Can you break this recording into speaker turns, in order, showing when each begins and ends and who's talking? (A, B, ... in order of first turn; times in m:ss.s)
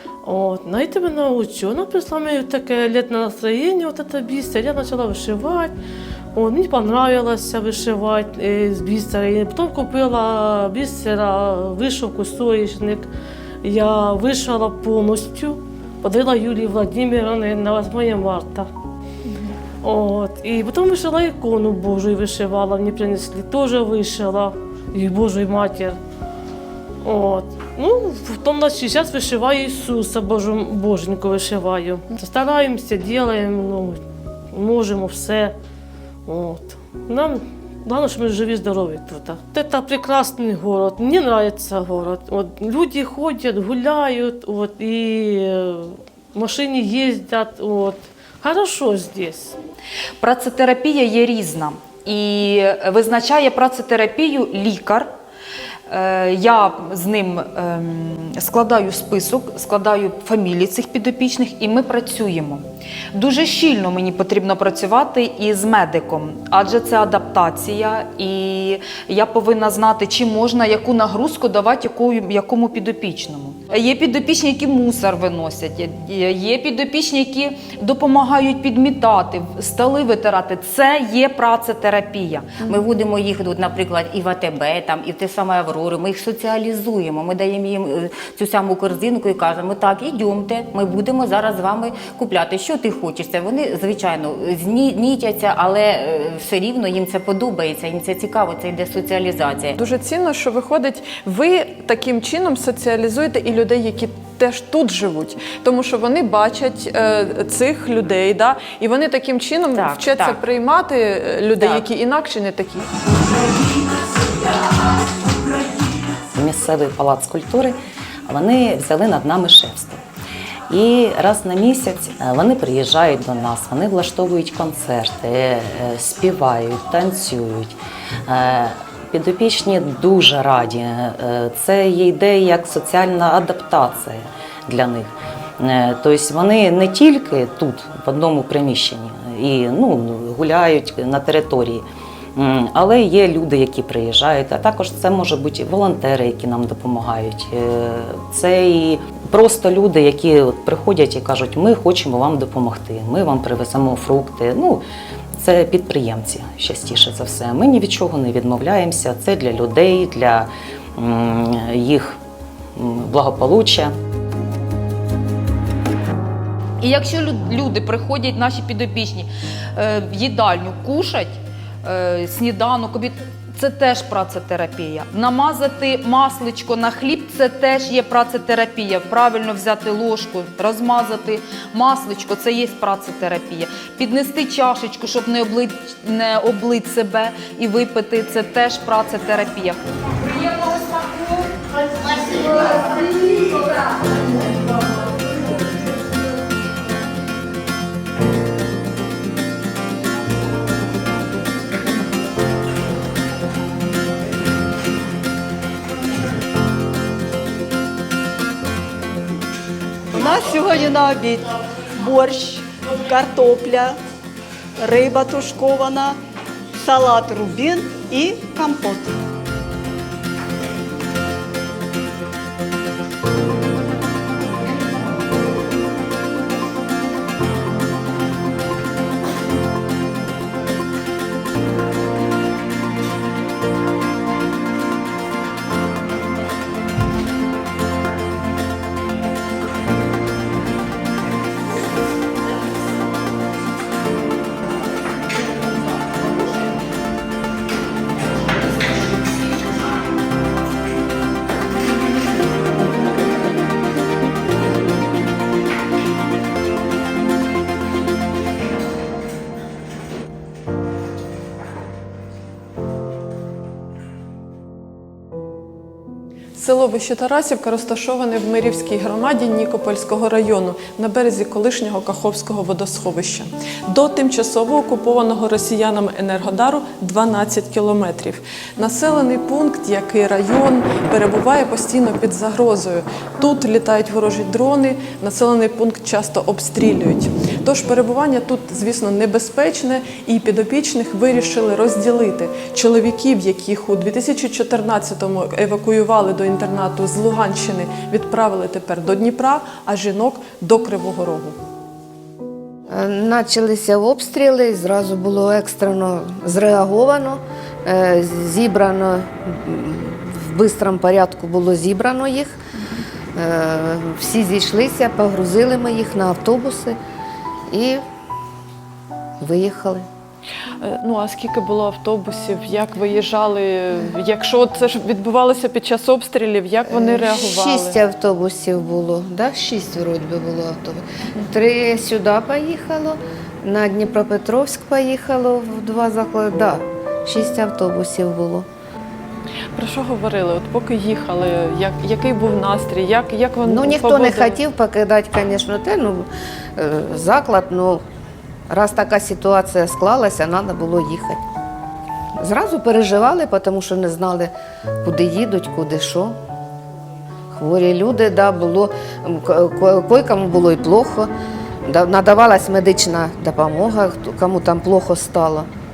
0:00.2-0:05.7 A
0:06.3-0:13.1 A
0:13.6-0:18.7 A
0:19.8-0:26.0 A
0:27.0-0:34.0 A
0:34.5-0:35.5 A
0:36.2-0:49.6 A
0:50.2-0:55.1 B
0:55.9-1:22.6 B
1:22.6-1:22.9 C
1:22.6-1:39.8 D
1:39.8-1:52.9 C
1:49.7-1:50.4 D
1:51.6-1:51.9 D
1:56.3-2:00.0 E
2:00.7-2:34.8 E
2:35.4-2:42.2 E
2:42.8-2:43.9 E
2:46.8-3:11.4 B
3:30.2-3:31.5 F
3:32.1-3:33.9 F
3:34.8-3:36.1 F
3:36.9-3:39.0 F
4:26.5-5:01.6 C
5:02.9-5:12.6 G
5:13.4-5:17.0 G
5:17.7-5:18.0 G
5:19.4-5:20.0 G
5:20.8-5:28.0 C
5:26.8-5:38.7 G
5:39.7-5:44.6 C
5:43.6-5:48.0 G
5:48.7-5:51.4 G
5:52.4-5:54.5 G
5:55.0-5:56.3 G
5:57.5-6:01.3 G
6:01.8-6:05.7 G